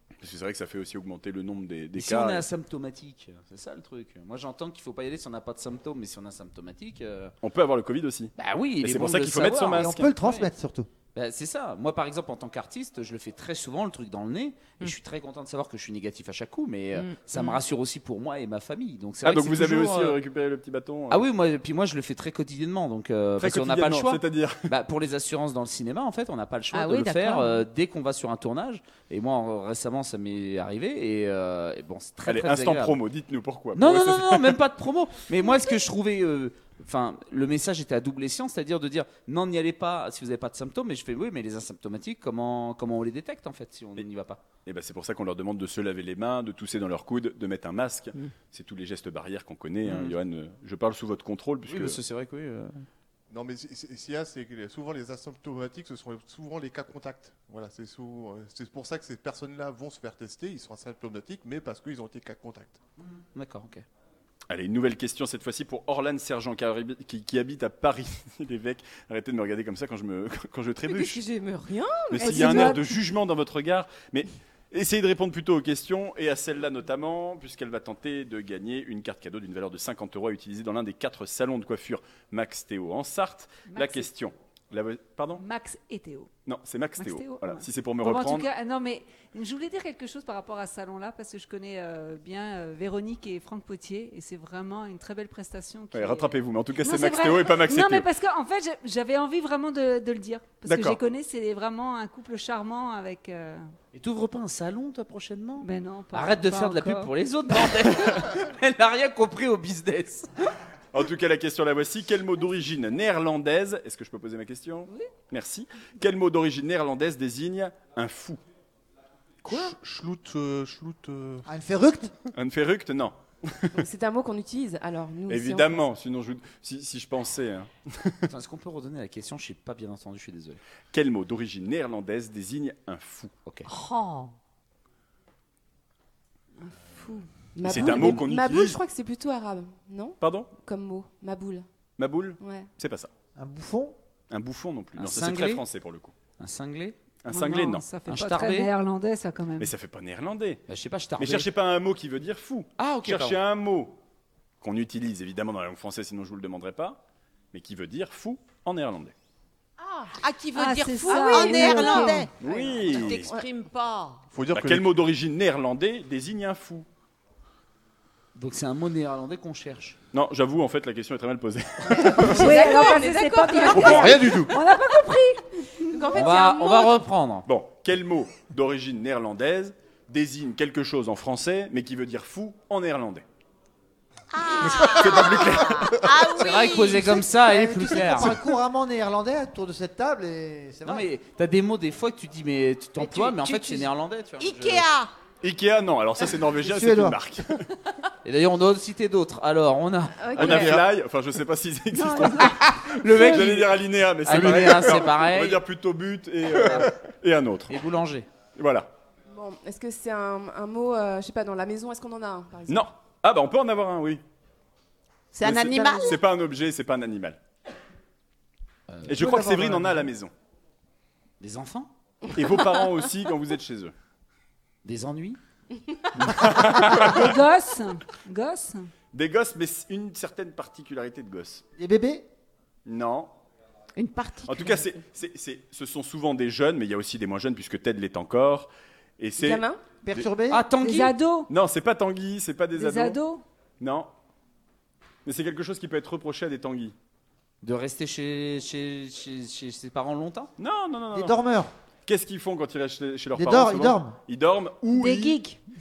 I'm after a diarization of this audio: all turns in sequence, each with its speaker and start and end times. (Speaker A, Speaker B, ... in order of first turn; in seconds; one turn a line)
Speaker A: 0.2-2.5
Speaker B: 1.9-7.3
Speaker A: 7.4-10.1
Speaker B: 8.4-10.5
Speaker C: 9.7-10.9
Speaker B: 11.1-20.2
Speaker D: 16.9-17.6
Speaker A: 19.2-21.2
Speaker B: 21.1-33.0
Speaker A: 23.4-24.6
Speaker D: 26.7-27.6
Speaker A: 32.2-34.6
Speaker B: 33.7-44.4
Speaker A: 44.6-52.0
Speaker B: 49.8-50.1
Speaker B: 51.7-52.9
Speaker E: 53.3-62.8
Speaker B: 63.3-63.8
Speaker A: 64.5-71.2
Speaker F: 70.8-72.8
Speaker A: 72.1-85.4
Speaker G: 72.2-72.8
Speaker G: 83.7-84.1
Speaker G: 85.4-86.3
Speaker A: 86.5-88.5
Speaker G: 87.0-103.6
Speaker A: 95.9-98.1
Speaker A: 100.7-101.0
Speaker B: 103.9-110.5
Speaker G: 105.6-107.1
Speaker A: 110.9-118.4
Speaker E: 119.4-121.5
Speaker C: 121.5-122.1
Speaker A: 122.3-123.7
Speaker F: 123.8-125.8
Speaker A: 125.3-128.3
Speaker B: 128.3-130.6
Speaker A: 130.9-133.3
Speaker D: 133.7-134.3
Speaker F: 137.0-141.7
Speaker A: 137.6-138.8
Speaker B: 137.7-138.1
Speaker A: 140.2-140.5
Speaker A: 142.0-143.1
Speaker F: 142.4-142.7
Speaker C: 143.3-143.9
Speaker A: 144.3-146.1
Speaker B: 145.0-145.6
Speaker B: 146.4-146.9
Speaker A: 147.2-147.8
Speaker G: 147.3-149.7
Speaker B: 148.1-148.7
Speaker A: 149.6-150.6
Speaker B: 150.7-151.5
Speaker A: 151.2-154.0
Speaker B: 152.8-153.4
Speaker A: 154.6-157.0
Speaker A: 157.5-159.1
Speaker D: 159.8-164.2
Speaker G: 160.5-162.3
Speaker C: 161.9-162.3
Speaker A: 162.4-163.3
Speaker F: 163.1-163.4
Speaker E: 164.3-165.1
Speaker A: 164.5-166.9
Speaker B: 168.3-170.0
Speaker A: 170.1-172.5
Speaker F: 172.0-174.4
Speaker G: 172.2-176.1
Speaker D: 172.4-174.2
Speaker E: 173.7-174.6
Speaker F: 175.9-177.0
Speaker B: 176.1-177.4
Speaker A: 177.4-183.2
Speaker D: 184.3-187.2
Speaker E: 184.6-186.2
Speaker A: 184.9-186.1
Speaker B: 186.3-188.6
Speaker C: 186.9-191.1
Speaker B: 190.8-194.8
Speaker D: 193.0-195.1
Speaker A: 195.4-197.6
Speaker C: 196.6-197.2
Speaker B: 198.2-200.7
Speaker F: 200.2-200.8
Speaker A: 200.3-207.7
Speaker E: 200.4-200.8
Speaker G: 201.9-202.6
Speaker B: 202.4-205.6
Speaker F: 203.3-203.5
Speaker E: 204.3-204.9
Speaker B: 207.7-208.3
Speaker A: 208.6-208.9
Speaker F: 209.3-212.9
Speaker A: 212.7-214.2
Speaker D: 215.3-216.2
Speaker A: 215.4-217.4
Speaker B: 218.9-219.9
Speaker A: 219.0-220.3
Speaker C: 219.2-219.7
Speaker B: 221.4-221.9
Speaker A: 222.3-223.9
Speaker B: 224.8-225.4
Speaker A: 226.2-227.4
Speaker G: 226.8-228.8
Speaker A: 229.1-231.6
Speaker C: 231.8-232.2
Speaker A: 232.8-233.3
Speaker D: 234.0-234.8
Speaker A: 234.4-239.6
Speaker F: 239.4-239.8
Speaker C: 240.0-240.6
Speaker B: 240.5-241.1
Speaker G: 240.7-241.5
Speaker A: 241.5-243.2
Speaker G: 242.8-243.4
Speaker A: 243.8-244.1
Speaker A: 245.2-246.9
Speaker B: 247.6-250.5
Speaker A: 250.6-251.3
Speaker C: 251.1-251.7
Speaker A: 252.1-255.4
Speaker C: 253.3-254.2
Speaker G: 254.9-255.6